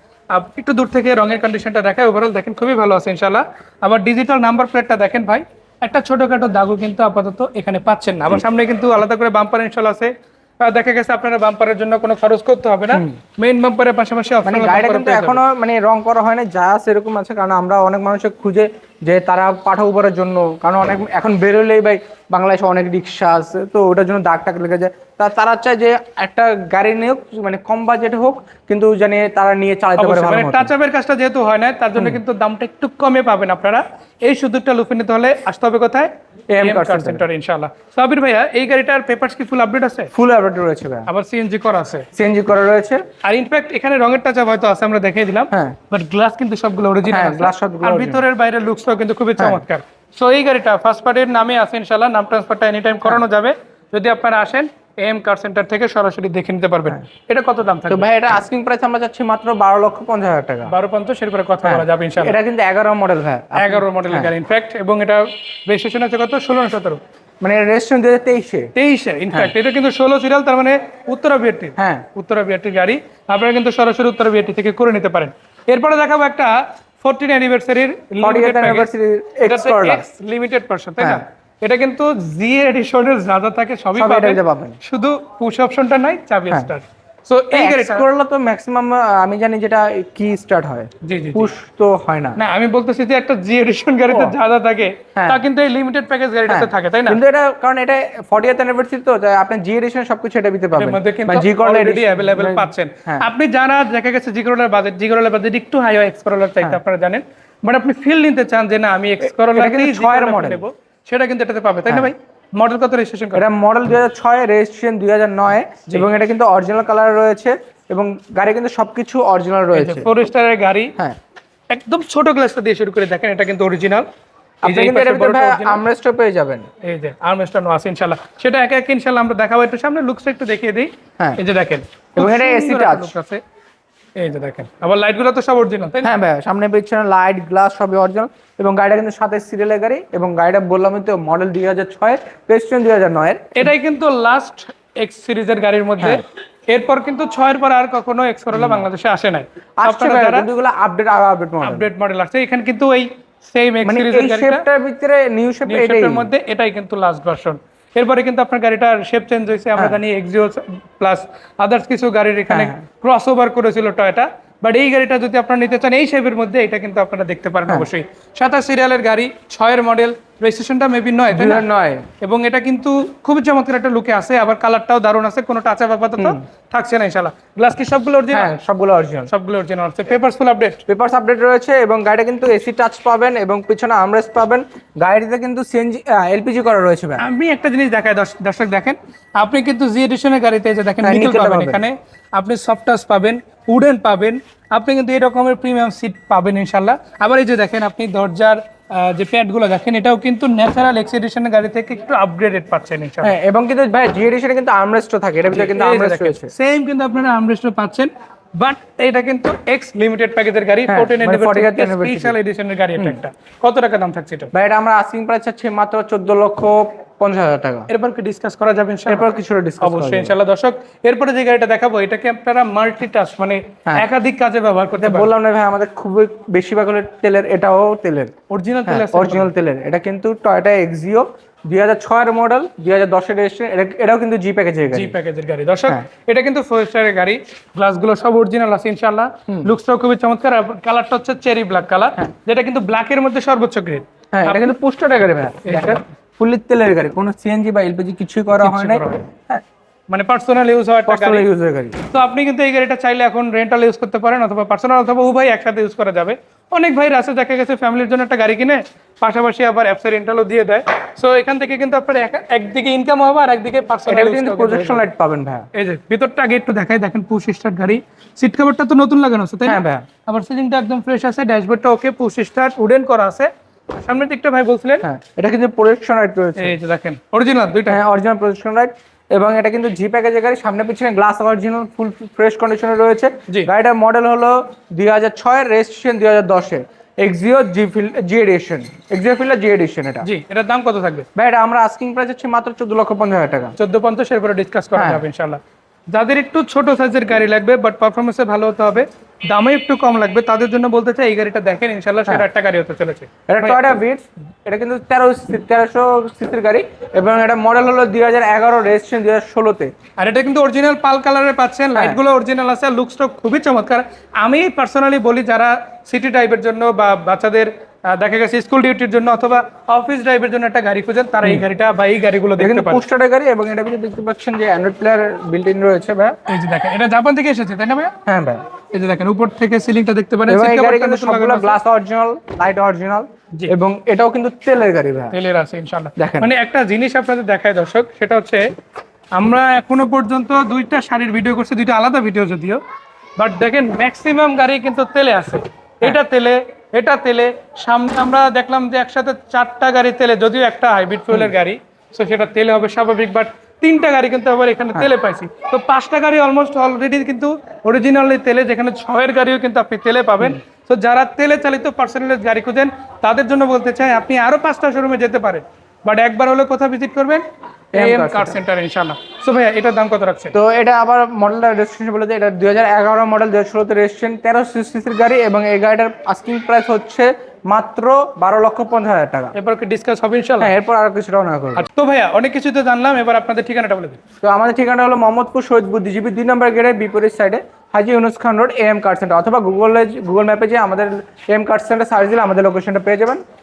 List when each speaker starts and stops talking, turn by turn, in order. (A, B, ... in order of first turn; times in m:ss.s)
0:00.3-0:15.4 A
0:12.9-0:13.2 B
0:14.4-0:30.7 B
0:30.0-0:40.1 A
0:36.5-0:37.2 B
0:40.1-0:41.1 B
0:41.1-0:42.1 A
0:42.1-0:43.0 B
0:43.2-0:58.0 A
0:47.0-0:48.2 B
0:57.9-1:00.7 B
1:00.7-1:02.4 A
1:01.6-1:04.3 B
1:03.6-1:07.0 A
1:07.4-1:08.7 B
1:08.7-1:18.9 A
1:11.8-1:12.0 B
1:18.2-1:20.0 B
1:19.4-1:28.0 A
1:24.0-1:24.8 B
1:27.5-1:32.4 B
1:31.0-1:31.5 A
1:32.4-1:37.2 A
1:34.1-1:34.4 B
1:35.2-1:35.4 B
1:36.5-1:43.3 B
1:40.7-1:53.4 A
1:49.4-1:50.6 B
1:51.9-1:52.1 B
1:53.3-2:00.1 B
1:59.7-2:00.9 A
2:01.7-2:04.1 A
2:04.6-2:06.7 B
2:04.6-2:05.8 A
2:06.8-2:13.4 A
2:12.2-2:13.1 B
2:14.2-2:16.1 A
2:16.0-2:23.7 B
2:23.6-2:30.4 A
2:28.5-2:28.8 B
2:29.8-2:31.9 B
2:31.6-2:34.6 A
2:33.8-2:36.3 B
2:35.7-2:51.6 A
2:42.5-2:42.8 B
2:51.3-2:52.1 B
2:52.2-2:58.5 A
2:58.3-2:59.3 B
2:59.3-3:00.8 A
3:00.9-3:07.2 B
3:07.2-3:23.3 A
3:11.0-3:11.8 B
3:23.2-3:26.5 B
3:25.5-3:34.5 A
3:30.9-3:32.3 B
3:34.5-3:37.9 B
3:37.9-3:39.3 A
3:39.1-3:40.3 B
3:39.8-3:45.3 A
3:45.0-3:48.3 B
3:48.5-3:49.5 A
3:48.8-3:55.1 B
3:54.9-4:04.7 A
4:04.3-4:09.6 B
4:05.6-4:06.0 A
4:08.6-4:09.2 A
4:10.1-4:11.4 A
4:11.1-4:12.0 B
4:12.1-4:25.0 A
4:24.1-4:25.7 B
4:25.7-4:35.0 A
4:29.6-4:30.0 B
4:35.0-4:36.7 B
4:36.6-4:38.0 A
4:37.9-4:50.3 B
4:50.2-4:51.2 A
4:51.3-4:53.7 B
4:53.8-4:55.6 A
4:55.0-4:55.2 B
4:56.1-5:03.8 A
5:03.5-5:09.9 B
5:10.2-5:23.0 A
5:11.9-5:12.2 B
5:22.6-5:26.4 B
5:26.5-5:28.1 A
5:28.2-5:28.6 B
5:28.9-5:31.8 A
5:30.5-5:35.3 B
5:35.3-5:38.6 A
5:36.2-5:36.5 B
5:39.3-5:42.8 A
5:43.4-6:10.5 A
6:07.9-6:08.6 B
6:10.5-6:19.5 B
6:19.5-6:20.7 A
6:20.6-6:21.9 B
6:21.8-6:24.2 A
6:24.4-6:33.4 B